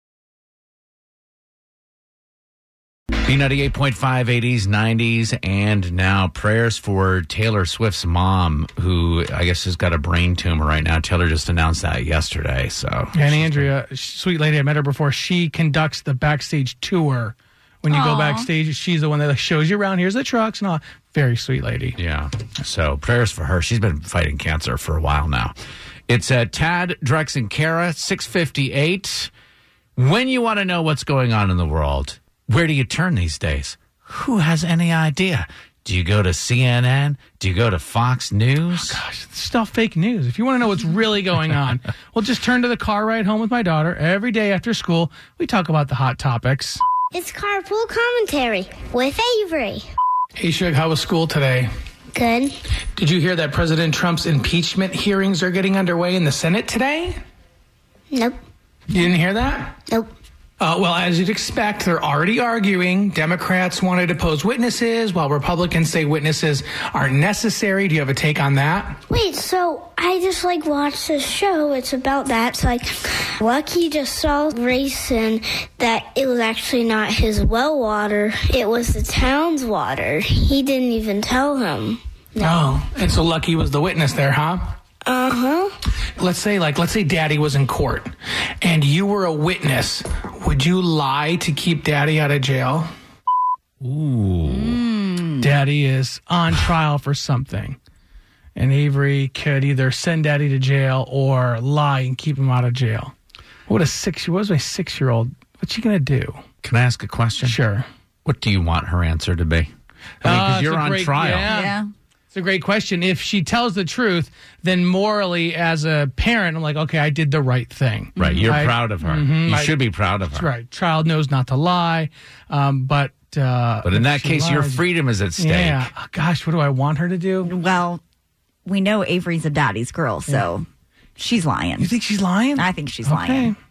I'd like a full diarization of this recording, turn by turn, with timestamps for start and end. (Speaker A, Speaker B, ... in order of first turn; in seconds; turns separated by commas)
Speaker A: 3.2-13.7, Speaker B: 13.2-22.0, Speaker C: 18.1-18.5, Speaker A: 22.0-25.5, Speaker A: 26.1-29.3, Speaker A: 30.0-39.0, Speaker B: 38.9-46.8, Speaker D: 47.1-49.9, Speaker B: 50.4-51.7, Speaker D: 52.1-52.5, Speaker B: 53.0-57.2, Speaker B: 58.9-59.7, Speaker B: 60.6-69.0, Speaker D: 69.1-82.7, Speaker B: 82.5-84.6, Speaker D: 85.0-85.7, Speaker B: 86.2-92.9, Speaker A: 93.8-94.8, Speaker C: 94.8-95.4, Speaker B: 95.4-97.8, Speaker B: 98.5-103.1, Speaker B: 103.7-106.4, Speaker A: 106.6-107.6, Speaker B: 107.5-107.9, Speaker A: 108.2-109.7, Speaker A: 110.2-111.7, Speaker B: 110.2-111.6, Speaker C: 111.5-111.9, Speaker B: 112.3-118.8, Speaker A: 118.2-120.5, Speaker C: 118.2-118.5, Speaker B: 119.3-119.7, Speaker B: 120.7-124.8, Speaker A: 123.8-125.9, Speaker B: 126.2-127.5, Speaker C: 127.4-128.0, Speaker C: 128.7-130.7, Speaker C: 131.2-132.0, Speaker B: 131.8-133.6, Speaker C: 132.6-133.6